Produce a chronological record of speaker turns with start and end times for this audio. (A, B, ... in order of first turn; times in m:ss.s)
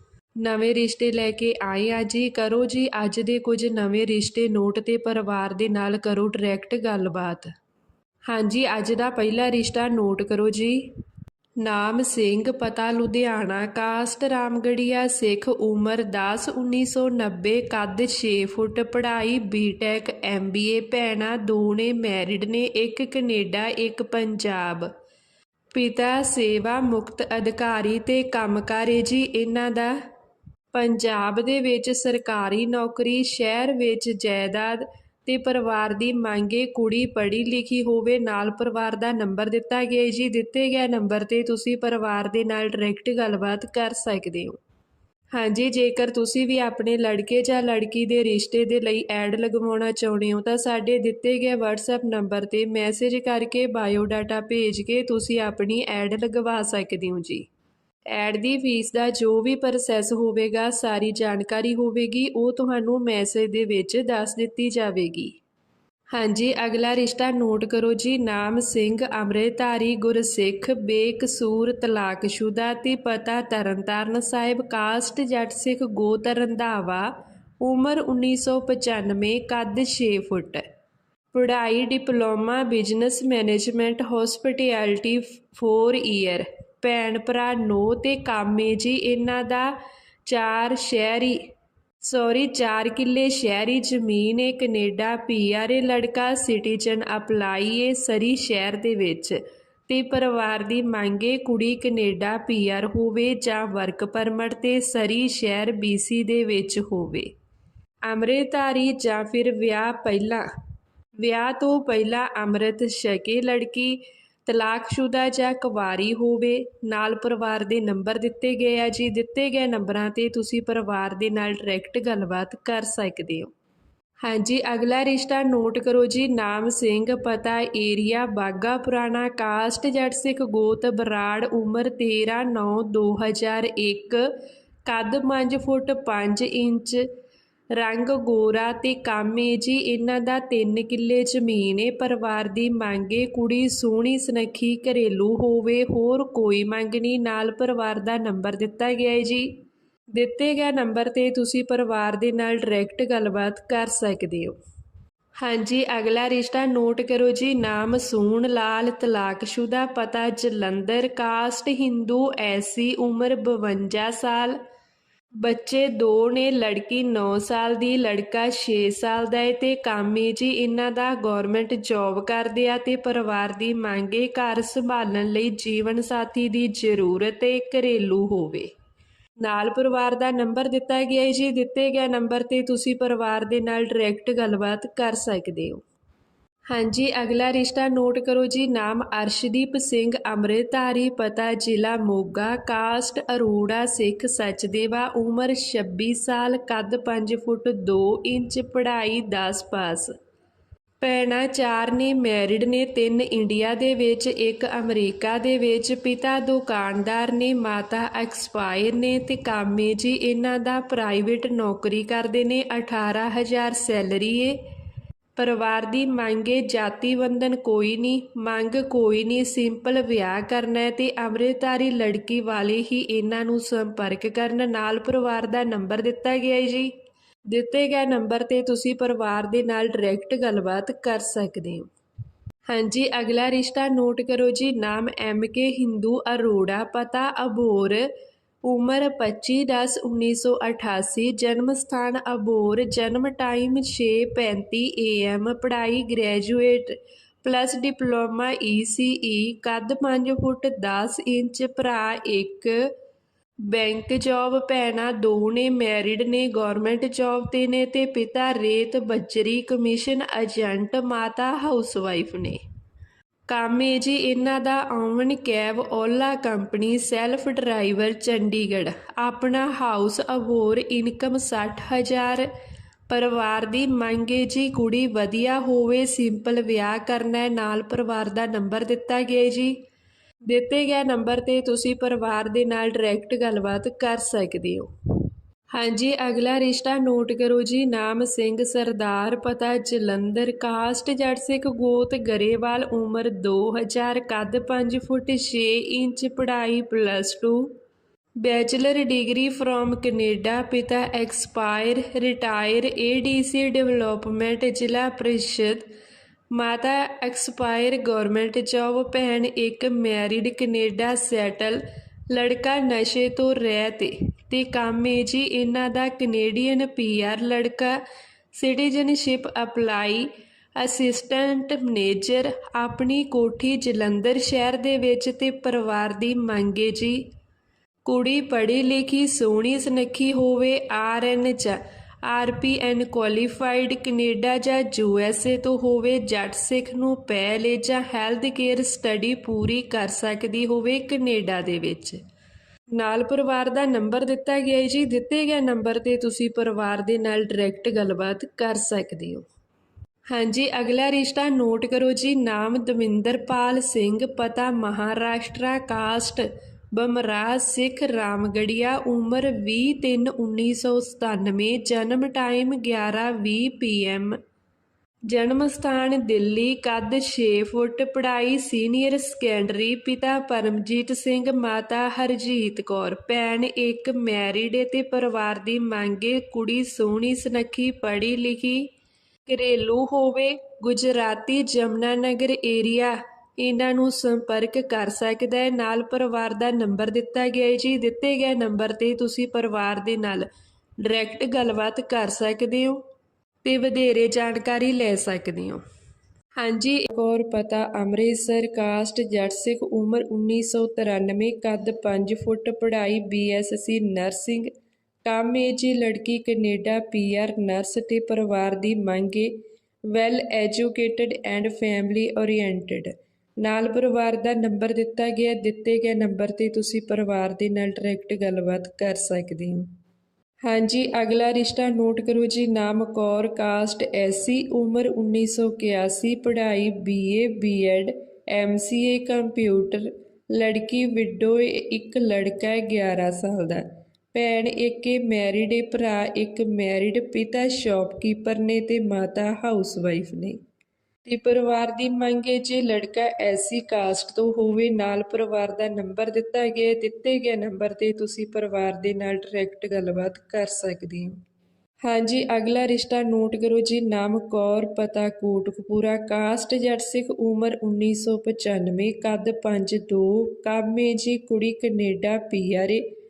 0:00.4-0:07.5 A
0:08.3-0:10.8 A
0:11.6-0:24.9 A
0:25.7-0:30.0 A
0:30.7-0:44.6 A
0:45.3-0:57.5 A
0:58.1-1:05.4 A
1:06.1-1:17.1 A
1:17.6-1:20.6 A
1:21.3-1:29.7 A
1:30.3-1:31.4 A
1:32.0-1:47.3 A
1:48.1-1:50.5 A
1:51.2-2:03.5 A
2:04.2-2:14.3 A
2:14.8-2:17.0 A
2:17.8-2:29.6 A
2:30.2-2:34.6 A
2:35.4-2:44.6 A
2:45.4-2:58.7 A
2:59.4-3:05.8 A
3:06.7-3:20.1 A
3:21.0-3:34.6 A
3:35.4-3:46.9 A
3:47.5-3:51.9 A
3:52.7-3:58.1 A
3:58.6-4:12.9 A
4:13.7-4:22.6 A
4:23.5-4:32.5 A
4:33.1-4:39.8 A
4:40.5-4:44.9 A
4:45.7-4:57.7 A
4:58.4-5:05.9 A
5:06.5-5:18.0 A
5:18.6-5:27.2 A
5:28.0-5:42.2 A
5:43.0-5:49.4 A
5:50.3-6:04.4 A
6:05.3-6:18.9 A
6:19.5-6:30.5 A
6:31.0-6:33.0 A
6:33.6-6:35.8 A
6:36.6-6:44.7 A
6:45.2-6:49.5 A
6:50.1-6:59.9 A
7:00.6-7:20.6 A
7:21.2-7:31.4 A
7:32.0-7:43.0 A